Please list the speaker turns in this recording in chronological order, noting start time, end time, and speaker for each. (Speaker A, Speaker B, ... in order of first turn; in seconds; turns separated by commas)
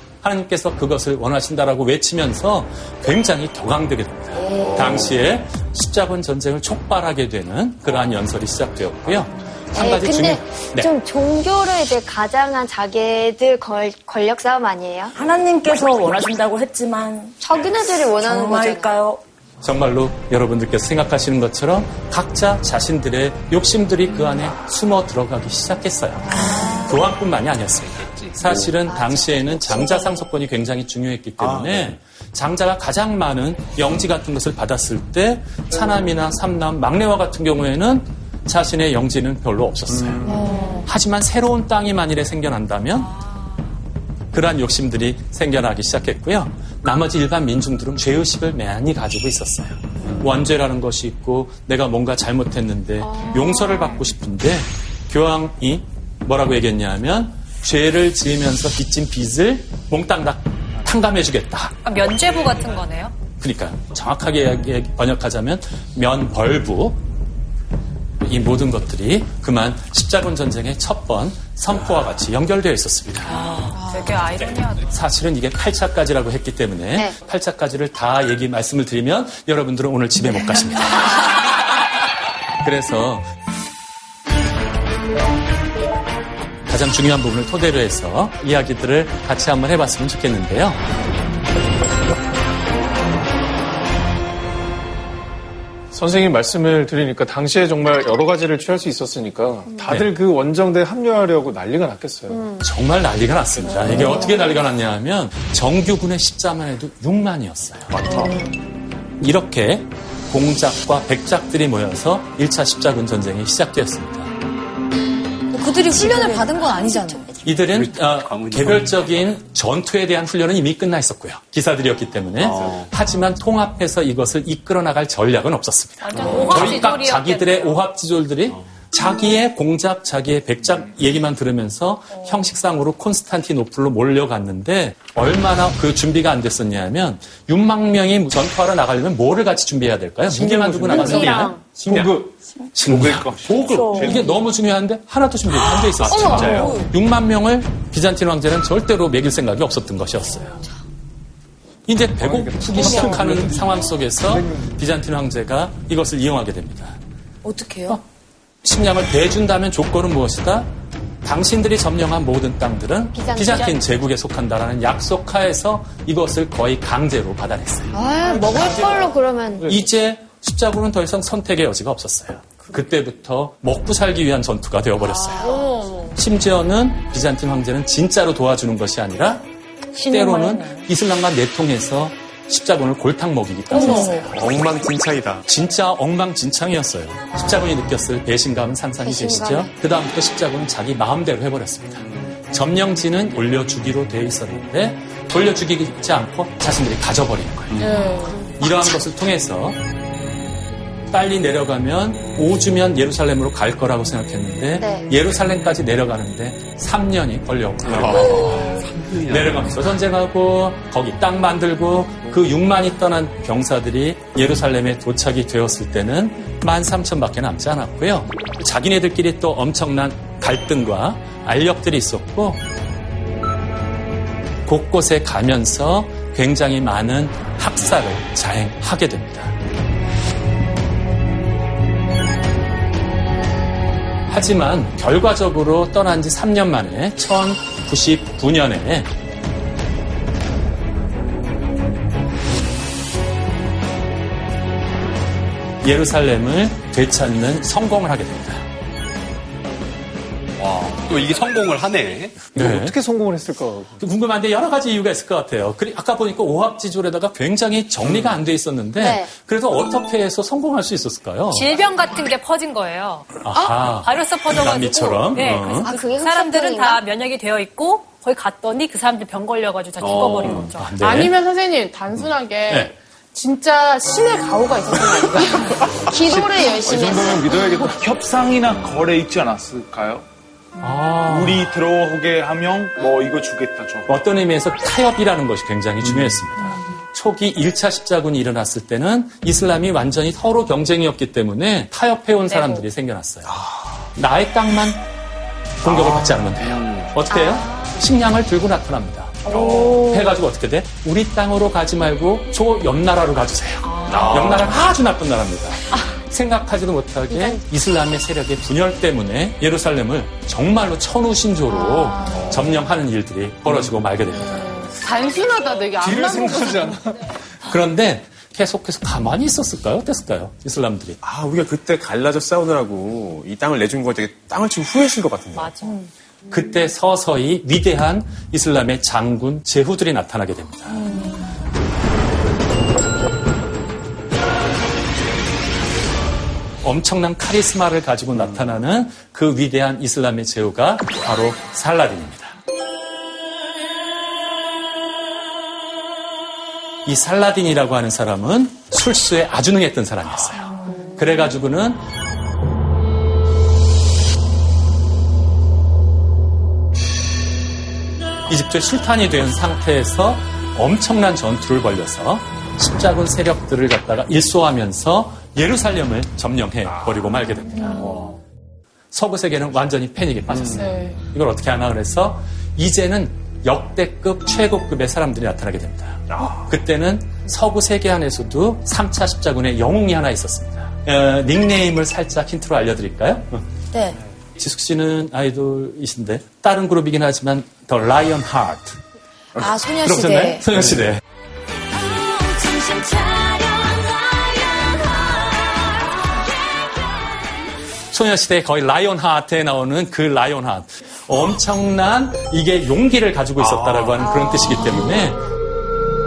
Speaker A: 0.2-10.9, Speaker B: 4.3-5.1, Speaker B: 9.7-15.2, Speaker C: 15.1-17.4, Speaker B: 17.4-18.9, Speaker C: 18.2-19.2, Speaker A: 19.6-26.3, Speaker D: 26.3-27.0, Speaker A: 26.9-40.2, Speaker E: 27.8-28.7, Speaker B: 29.0-30.0, Speaker F: 31.4-31.9, Speaker F: 39.9-40.3, Speaker D: 40.3-40.7, Speaker B: 40.3-40.6, Speaker A: 40.9-43.1, Speaker A: 44.3-61.8, Speaker G: 61.8-63.1, Speaker A: 63.4-67.0, Speaker A: 68.2-73.3, Speaker C: 73.3-73.7, Speaker G: 73.3-74.9, Speaker D: 73.7-74.1, Speaker A: 74.9-81.3, Speaker A: 82.6-83.3, Speaker A: 86.7-90.8, Speaker H: 95.9-102.5, Speaker A: 99.8-100.1, Speaker B: 102.3-102.6, Speaker A: 102.6-107.9, Speaker F: 107.9-108.3, Speaker A: 109.2-114.3, Speaker D: 115.5-117.2, Speaker B: 115.9-117.6, Speaker A: 117.4-142.1, Speaker E: 117.7-119.3, Speaker E: 122.4-122.9, Speaker G: 126.0-127.8, Speaker E: 126.2-126.5, Speaker H: 140.3-142.3, Speaker B: 140.9-141.6, Speaker A: 142.7-150.6, Speaker I: 142.8-144.4, Speaker C: 143.6-144.4, Speaker E: 146.0-146.6, Speaker B: 146.1-146.7, Speaker A: 151.9-157.0, Speaker H: 152.2-154.8, Speaker D: 157.4-158.0, Speaker A: 158.6-160.7, Speaker A: 161.2-168.0, Speaker B: 163.1-163.8, Speaker B: 167.9-169.7, Speaker H: 168.4-169.1, Speaker A: 168.5-175.5, Speaker H: 169.6-169.8, Speaker B: 175.1-175.7, Speaker J: 175.4-176.2, Speaker A: 176.1-179.4, Speaker C: 179.9-180.9, Speaker A: 180.1-184.4, Speaker D: 183.7-184.2, Speaker C: 183.7-184.3, Speaker F: 184.3-185.4, Speaker A: 185.4-199.8, Speaker B: 189.0-189.7, Speaker J: 197.8-198.4, Speaker A: 201.1-208.7, Speaker B: 204.8-205.1, Speaker F: 207.9-208.4, Speaker E: 208.0-209.9, Speaker A: 209.2-222.6, Speaker A: 224.7-229.5, Speaker A: 234.3-239.1, Speaker A: 245.8-248.6, Speaker E: 250.6-252.5, Speaker H: 252.5-254.0, Speaker A: 252.5-252.9, Speaker A: 254.0-261.7, Speaker E: 258.1-258.4, Speaker B: 259.0-259.3, Speaker G: 261.5-270.9, Speaker A: 263.4-265.9, Speaker B: 265.8-267.0, Speaker E: 270.0-270.7, Speaker A: 270.6-271.3, Speaker J: 271.0-277.5, Speaker H: 276.3-277.9, Speaker I: 276.8-280.2, Speaker A: 280.8-281.8, Speaker I: 281.2-284.2, Speaker A: 284.1-293.6, Speaker E: 286.0-286.4, Speaker G: 292.5-292.8, Speaker A: 294.1-295.0, Speaker A: 295.8-314.8, Speaker E: 295.9-297.2, Speaker B: 297.3-298.0, Speaker E: 299.5-300.0, Speaker C: 303.9-304.3, Speaker E: 304.1-304.7, Speaker J: 314.4-317.0, Speaker H: 316.0-317.2, Speaker A: 317.6-321.2, Speaker F: 321.2-325.8, Speaker G: 325.5-326.1, Speaker A: 326.5-331.1, Speaker A: 336.8-342.6, Speaker E: 338.4-338.7, Speaker A: 347.1-352.0, Speaker A: 358.5-368.2, Speaker F: 366.9-367.4, Speaker A: 369.1-383.6, Speaker F: 370.5-370.8, Speaker J: 370.8-371.2, Speaker F: 376.3-376.7, Speaker D: 383.9-384.2, Speaker A: 384.6-389.0, Speaker D: 389.6-390.7, Speaker A: 390.0-391.2, Speaker D: 392.6-393.6, Speaker A: 398.1-405.4, Speaker E: 403.6-404.3, Speaker B: 404.4-405.1